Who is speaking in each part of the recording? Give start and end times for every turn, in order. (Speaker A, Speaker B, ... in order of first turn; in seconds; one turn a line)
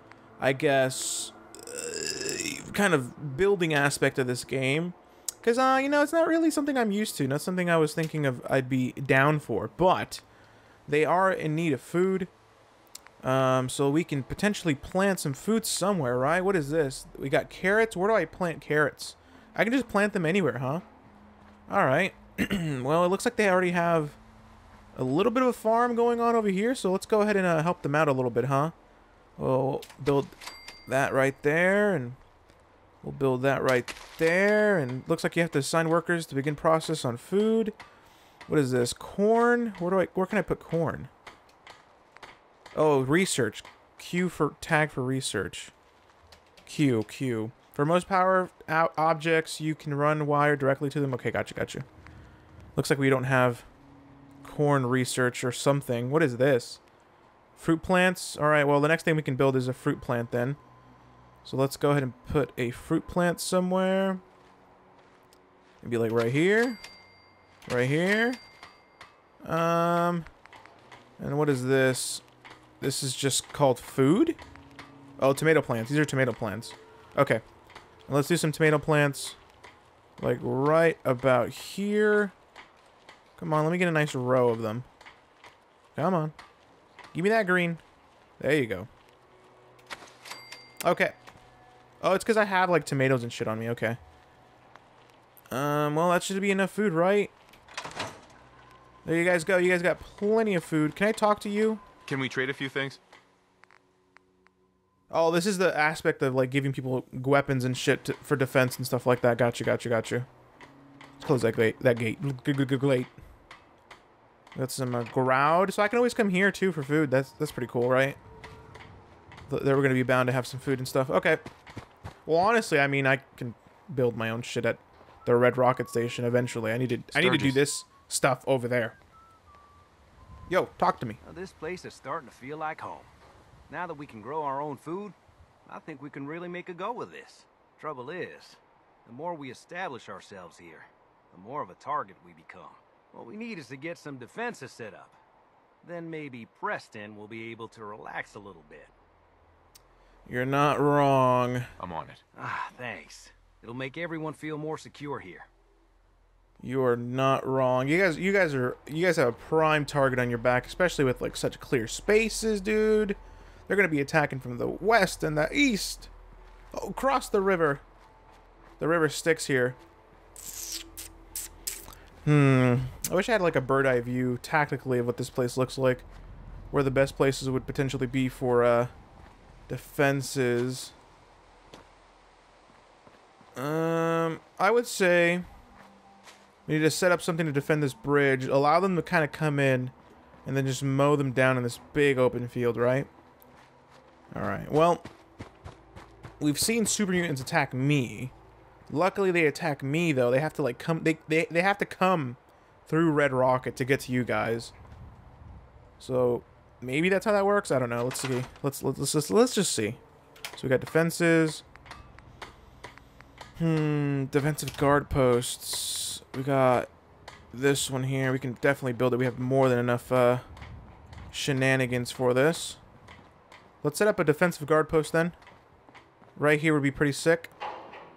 Speaker A: 0.4-10.2
Speaker A: 10.9-12.3
Speaker A: 13.2-20.8
Speaker A: 21.7-24.2
Speaker A: 24.9-28.7
Speaker A: 29.4-30.3
Speaker A: 30.9-32.2
Speaker A: 33.0-37.8
Speaker A: 38.5-41.1
Speaker A: 42.7-45.7
Speaker A: 46.6-51.9
Speaker A: 52.8-53.7
Speaker A: 54.4-56.8
Speaker A: 57.5-60.6
Speaker A: 61.4-64.2
Speaker A: 65.8-66.8
Speaker A: 67.7-68.4
Speaker A: 69.4-70.3
Speaker A: 71.2-72.2
Speaker A: 72.8-74.4
Speaker A: 75.2-77.4
Speaker A: 78.1-79.4
Speaker A: 80.2-82.3
Speaker A: 83.4-84.9
Speaker A: 85.9-86.3
Speaker A: 87.1-87.8
Speaker A: 88.4-88.9
Speaker A: 90.8-91.2
Speaker A: 92.0-94.0
Speaker A: 95.5-97.3
Speaker A: 99.0-101.8
Speaker B: 102.0-103.0
Speaker A: 105.1-110.3
Speaker A: 111.2-113.1
Speaker A: 114.5-118.2
Speaker A: 119.5-121.4
Speaker A: 122.2-129.0
Speaker B: 127.1-127.6
Speaker A: 130.5-131.2
Speaker C: 131.2-133.1
Speaker C: 133.7-145.2
Speaker C: 145.8-148.9
Speaker A: 150.2-151.7
Speaker B: 151.8-152.2
Speaker C: 152.3-155.5
Speaker A: 156.6-166.1
Speaker A: 166.7-167.8
Speaker A: 168.8-169.8
Speaker A: 172.2-176.1
Speaker A: 176.7-178.9
Speaker A: 179.7-180.9
Speaker A: 183.6-185.4
Speaker A: 186.7-189.9
Speaker A: 190.4-193.1
Speaker A: 194.3-195.1
Speaker A: 196.4-198.3
Speaker A: 198.9-204.7
Speaker A: 206.0-210.0
Speaker A: 210.6-211.6
Speaker A: 213.6-216.9
Speaker A: 217.5-220.5
Speaker A: 221.3-222.8
Speaker A: 223.8-225.4
Speaker A: 226.3-227.5